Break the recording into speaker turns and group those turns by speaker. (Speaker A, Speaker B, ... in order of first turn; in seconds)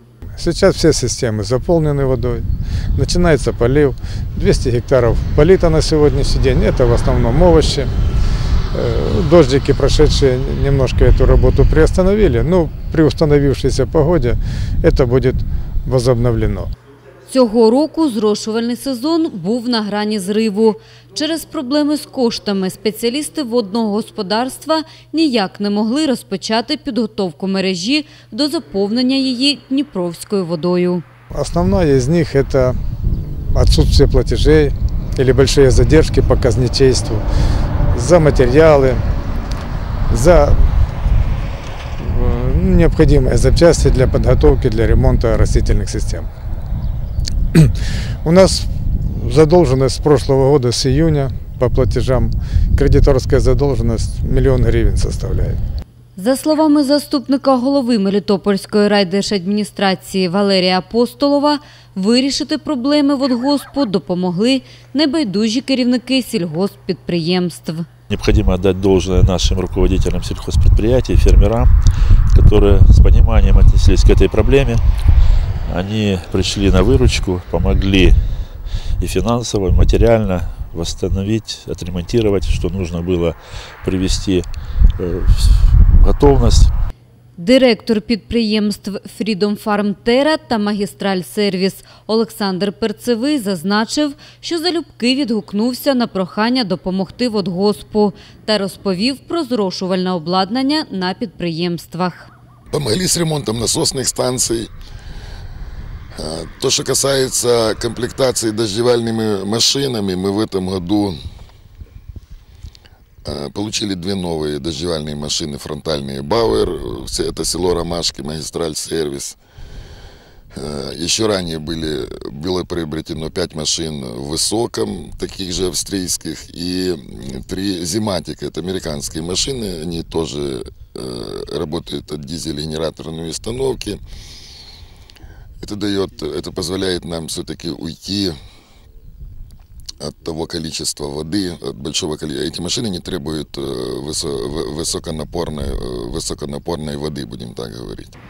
Speaker A: 0.4-2.4, 2.9-7.9, 8.8-16.7, 31.4-37.2, 37.9-39.0, 40.1-40.5, 42.0-46.3, 48.2-48.6, 49.2-55.6
Speaker B: 17.3-31.0, 56.1-67.9, 87.4-102.3
Speaker C: 68.1-71.8, 72.3-74.8, 75.6-86.7
Speaker D: 102.7-104.7, 106.2-111.2, 113.2-119.3, 120.5-134.0, 135.6-138.3, 140.0-148.1